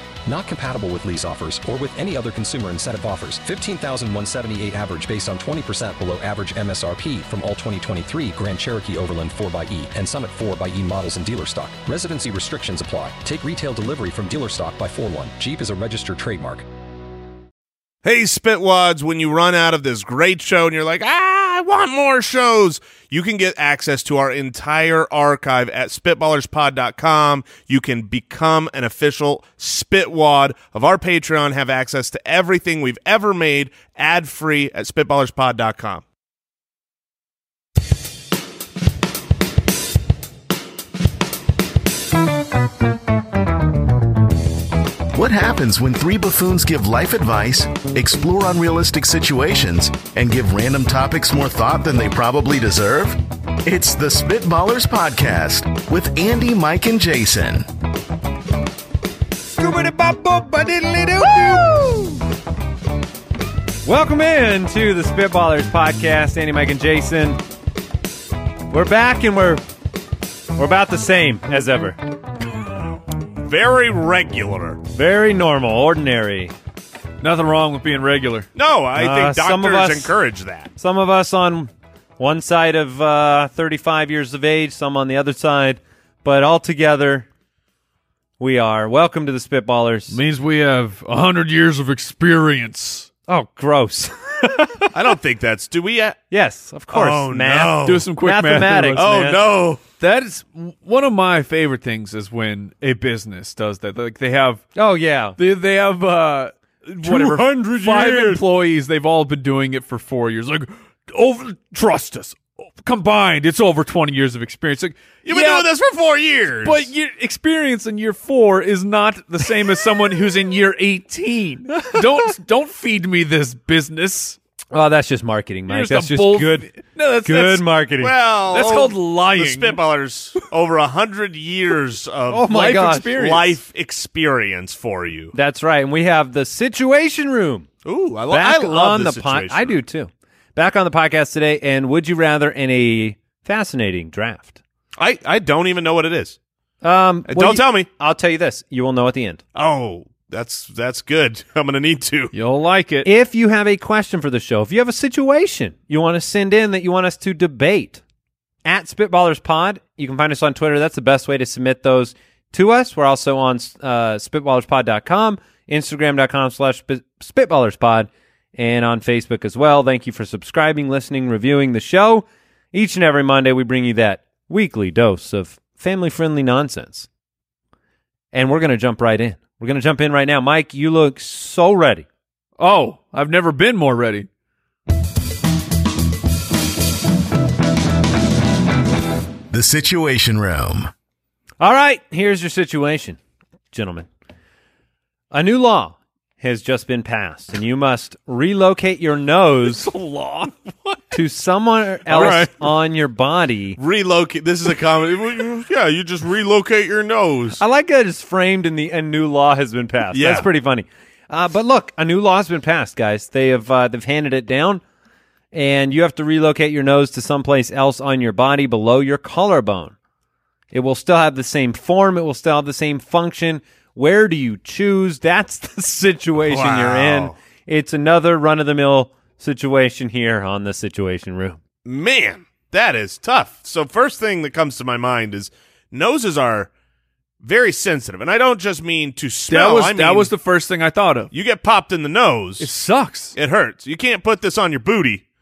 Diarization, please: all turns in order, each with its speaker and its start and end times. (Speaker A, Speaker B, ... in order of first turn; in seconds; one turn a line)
Speaker A: 0.2-16.6
Speaker B: 18.0-36.0
Speaker C: 45.1-57.7
Speaker D: 59.5-62.2
Speaker D: 63.8-67.4
Speaker D: 68.7-69.6
Speaker D: 70.5-72.0
Speaker B: 73.4-74.8
Speaker D: 74.9-76.5
Speaker E: 77.2-78.5
Speaker B: 78.5-80.7
Speaker D: 78.9-80.2
Speaker D: 80.8-87.3
Speaker D: 88.4-90.2
Speaker E: 90.1-93.1
Speaker D: 93.3-94.9
Speaker B: 94.9-96.2
Speaker D: 96.3-99.4
Speaker B: 96.9-98.0
Speaker E: 97.8-99.0
Speaker B: 99.0-99.8
Speaker E: 100.0-104.6
Speaker D: 104.8-105.4
Speaker E: 105.4-115.7
Speaker D: 107.0-108.4
Speaker B: 115.2-116.9
Speaker E: 116.6-124.4
Speaker D: 124.7-126.7
Speaker E: 125.7-127.7
Speaker D: 127.2-128.1
Speaker B: 128.0-132.5
Speaker E: 128.5-129.8
Speaker D: 132.3-133.1
Speaker E: 132.4-133.6
Speaker B: 133.1-135.3
Speaker D: 135.3-137.7
Speaker B: 137.8-139.8
Speaker D: 138.3-144.6
Speaker B: 145.0-146.4
Speaker D: 146.8-149.4
Speaker B: 147.3-147.9
Speaker B: 149.5-152.3
Speaker E: 152.3-153.1
Speaker D: 153.0-158.0
Speaker D: 158.6-177.1
Speaker D: 178.3-182.1
Speaker E: 182.6-184.3
Speaker C: 189.5-190.9
Speaker D: 191.6-193.2
Speaker D: 193.7-194.1
Speaker D: 195.3-199.9
Speaker E: 199.7-201.2
Speaker D: 201.1-203.8
Speaker E: 202.1-202.7
Speaker B: 203.8-207.6
Speaker D: 207.6-214.8
Speaker B: 210.1-210.5
Speaker D: 215.5-219.9
Speaker D: 220.7-231.6
Speaker B: 226.4-227.3
Speaker B: 231.8-236.7
Speaker B: 237.4-240.3
Speaker E: 239.5-241.3
Speaker B: 241.3-242.7
Speaker E: 242.6-243.3
Speaker B: 243.3-245.2